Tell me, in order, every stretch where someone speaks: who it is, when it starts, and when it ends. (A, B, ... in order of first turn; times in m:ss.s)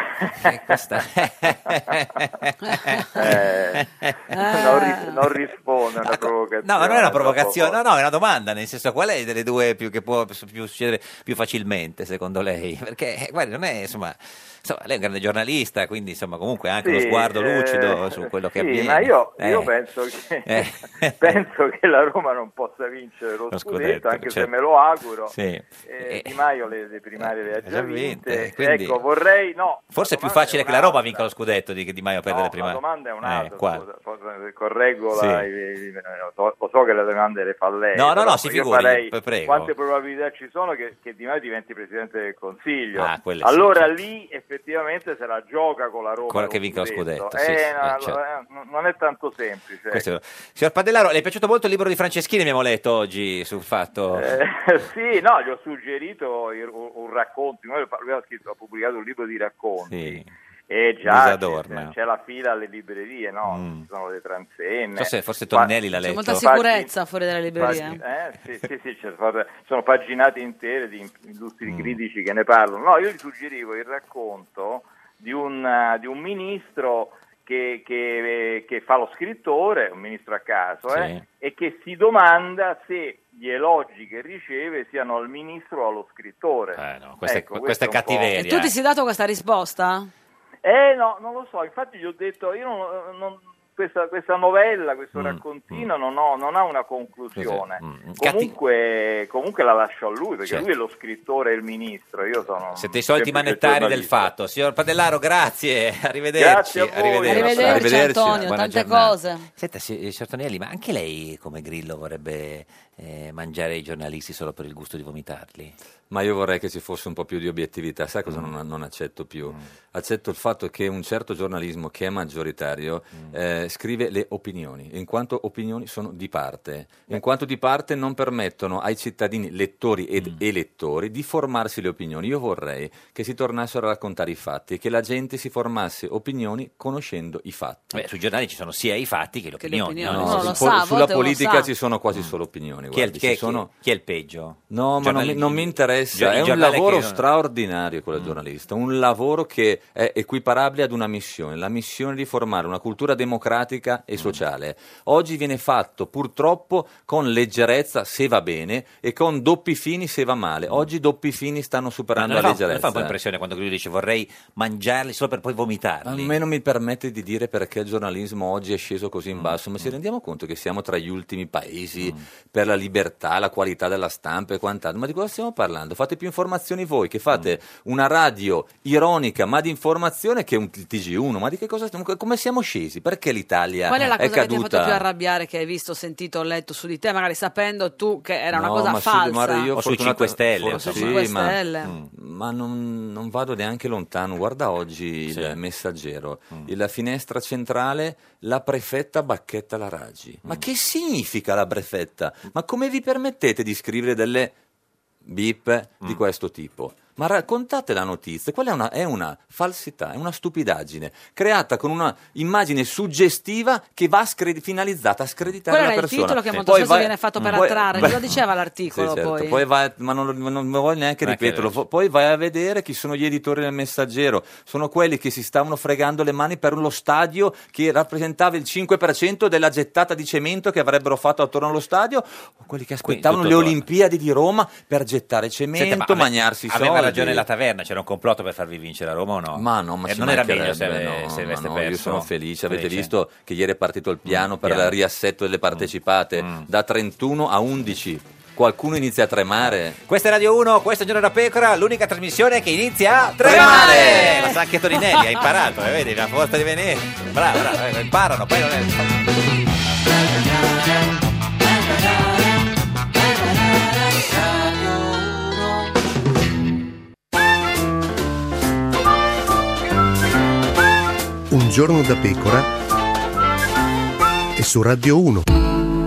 0:00.2-0:04.7 A
0:03.2-0:07.8 B
0:04.3-0:05.1 C
0:06.0-0:19.7 A
0:16.8-0:31.3 B
0:20.5-0:21.4 A
0:23.5-0:24.5 A
0:25.3-0:26.4 A
0:27.2-0:29.0 A
0:29.9-0:33.8 A
0:32.3-0:50.1 B
0:35.2-0:35.5 A
0:37.9-0:39.7 A
0:43.0-0:43.9 A
0:46.3-0:48.2 A
0:49.9-0:54.3 A
0:54.1-1:05.8 B
0:59.9-1:00.3 A
1:01.0-1:01.9 A
1:03.5-1:03.9 A
1:05.0-1:06.4 A
1:06.0-1:08.0 C
1:06.3-1:06.9 B
1:07.6-1:28.4 B
1:07.6-1:08.0 A
1:11.7-1:12.0 A
1:20.9-1:21.2 A
1:26.8-1:28.7 A
1:28.4-1:30.1 C
1:30.6-1:44.3 B
1:35.2-1:35.9 A
1:37.3-1:38.5 A
1:42.8-1:55.8 A
1:46.3-1:47.8 B
1:47.3-1:49.5 C
1:47.6-1:48.5 D
1:56.1-2:18.1 D
2:17.9-2:20.6 A
2:19.6-2:21.7 C
2:20.0-2:23.7 D
2:22.9-2:27.2 A
2:24.7-2:43.2 D
2:42.2-2:46.4 A
2:46.0-3:05.0 D
2:49.4-2:49.9 A
3:03.9-3:09.7 C
3:08.5-3:24.6 D
3:09.8-3:11.2 A
3:10.7-3:11.9 C
3:15.3-3:15.6 A
3:25.2-3:38.2 D
3:35.7-3:39.6 C
3:37.4-3:38.4 A
3:38.9-3:57.4 D
3:41.2-3:41.8 A
3:53.0-3:53.8 A
3:55.8-4:03.1 A
3:59.5-4:10.0 D
4:04.3-4:04.9 A
4:06.4-4:06.7 A
4:10.1-4:19.2 A
4:13.4-4:14.5 D
4:13.6-4:14.5 C
4:20.2-4:22.5 A
4:23.4-4:25.6 A
4:31.5-4:32.7 E
4:34.6-4:35.4 E